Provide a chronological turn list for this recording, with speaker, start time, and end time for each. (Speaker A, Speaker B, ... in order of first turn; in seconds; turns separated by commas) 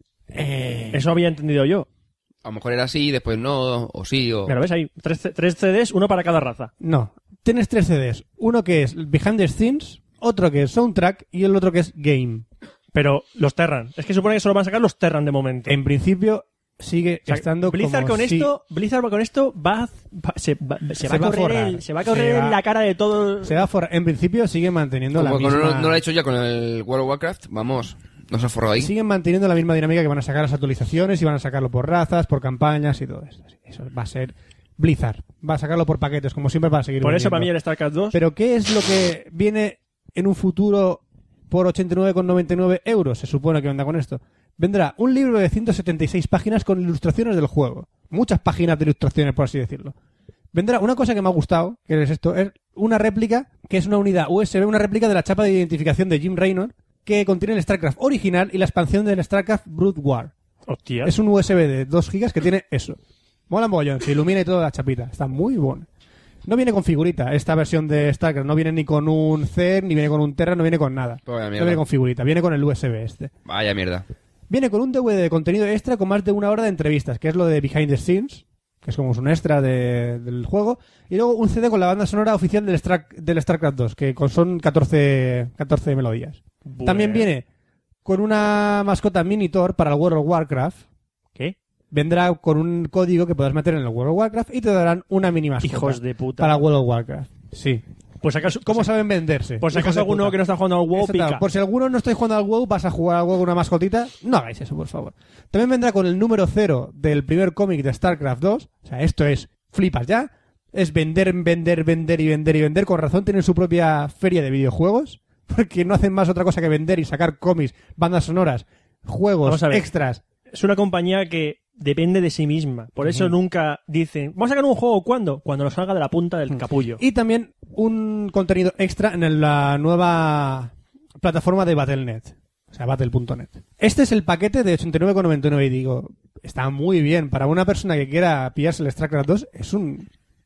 Speaker A: 0.3-1.1, Speaker B: 0.9-1.9, Speaker C: 2.4-4.5, Speaker B: 4.5-6.7, Speaker A: 6.8-12.4, Speaker B: 12.9-15.8, Speaker A: 15.7-18.5, Speaker B: 17.3-23.6, Speaker A: 21.0-22.6, Speaker A: 23.4-26.0, Speaker C: 25.1-28.9, Speaker A: 28.8-37.5, Speaker B: 37.0-38.2, Speaker A: 38.1-49.9, Speaker A: 50.5-60.3, Speaker B: 60.7-61.1, Speaker A: 61.0-63.0, Speaker A: 63.5-65.9, Speaker A: 66.4-73.3, Speaker C: 71.3-71.8, Speaker C: 73.5-74.0, Speaker A: 74.5-87.5, Speaker B: 86.7-87.3, Speaker A: 88.0-90.8, Speaker A: 91.9-97.8, Speaker B: 95.6-96.6, Speaker B: 98.2-98.9, Speaker A: 98.6-100.4, Speaker B: 99.6-101.4, Speaker A: 100.9-120.2, Speaker B: 119.4-119.9, Speaker B: 120.5-127.0, Speaker A: 123.0-123.3, Speaker A: 126.5-140.1